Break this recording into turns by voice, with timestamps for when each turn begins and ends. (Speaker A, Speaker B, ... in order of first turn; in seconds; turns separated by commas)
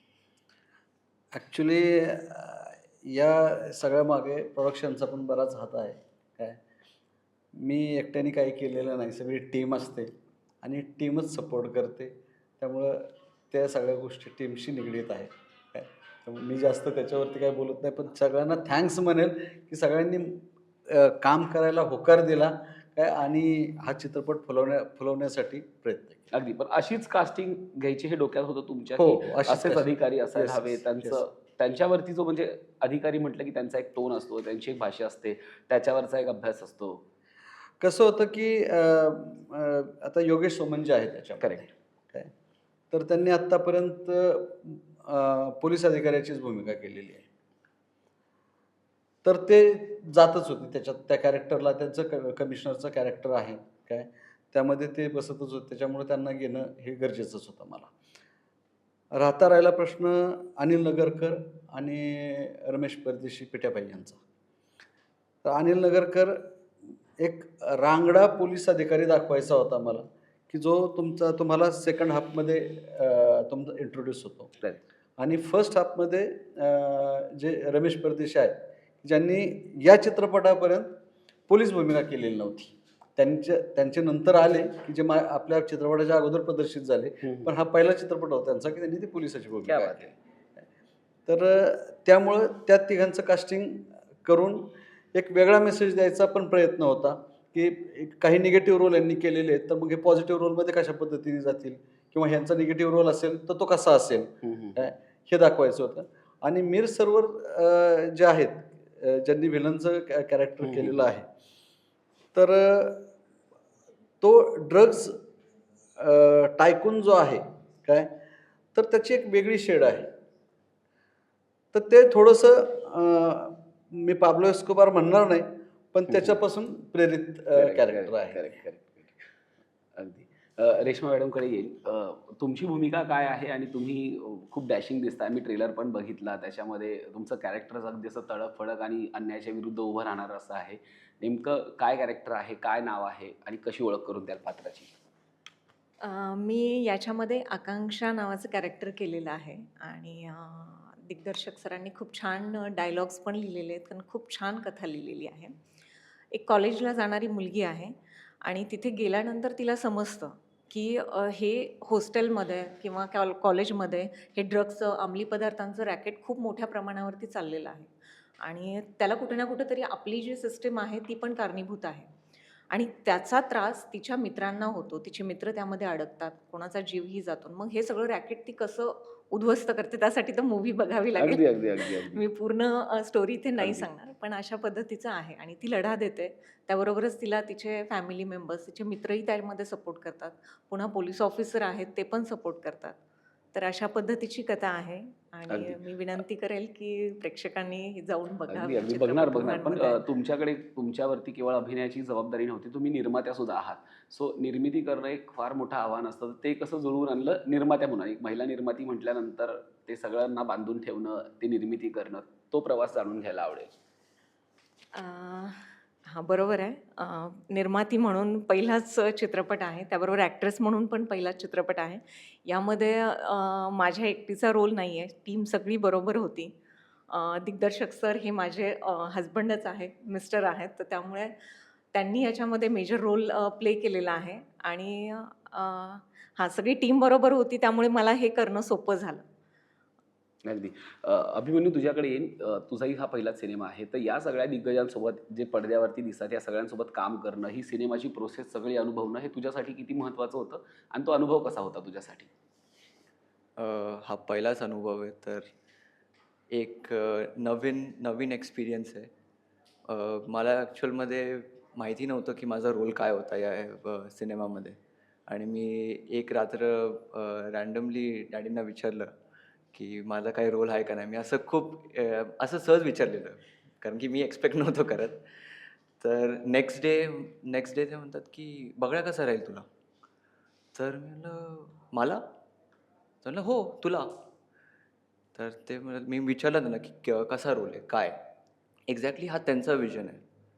Speaker A: 1.4-6.6, Speaker A: 7.5-26.3, Speaker B: 26.3-37.0, Speaker A: 29.0-31.2, Speaker A: 37.8-42.3, Speaker B: 41.4-41.7, Speaker A: 42.9-47.3, Speaker A: 49.2-57.9, Speaker A: 59.1-64.2, Speaker A: 65.5-66.5, Speaker A: 67.2-74.5, Speaker A: 75.2-81.0, Speaker A: 81.5-90.1, Speaker B: 87.2-87.5, Speaker B: 89.7-90.1, Speaker A: 91.3-111.3, Speaker B: 104.5-104.8, Speaker B: 110.6-111.0, Speaker A: 112.3-113.1, Speaker A: 114.2-115.2, Speaker A: 116.0-118.2, Speaker A: 118.8-120.1, Speaker A: 121.7-128.5, Speaker B: 126.1-126.3, Speaker B: 127.6-129.1, Speaker B: 130.0-144.9, Speaker C: 146.0-155.5, Speaker C: 156.3-167.9, Speaker C: 168.4-172.1, Speaker C: 172.7-193.0, Speaker B: 181.2-182.2, Speaker B: 183.6-183.9, Speaker C: 193.5-200.0, Speaker B: 195.5-195.8, Speaker B: 198.5-213.7, Speaker C: 214.9-226.5, Speaker C: 227.1-231.3, Speaker C: 231.9-239.2, Speaker B: 240.4-252.3, Speaker D: 253.6-255.5, Speaker D: 256.5-259.1, Speaker D: 259.9-269.1, Speaker D: 269.7-275.2, Speaker D: 276.0-279.7, Speaker D: 280.8-282.2, Speaker D: 283.2-284.2, Speaker D: 285.4-288.2, Speaker D: 288.9-290.2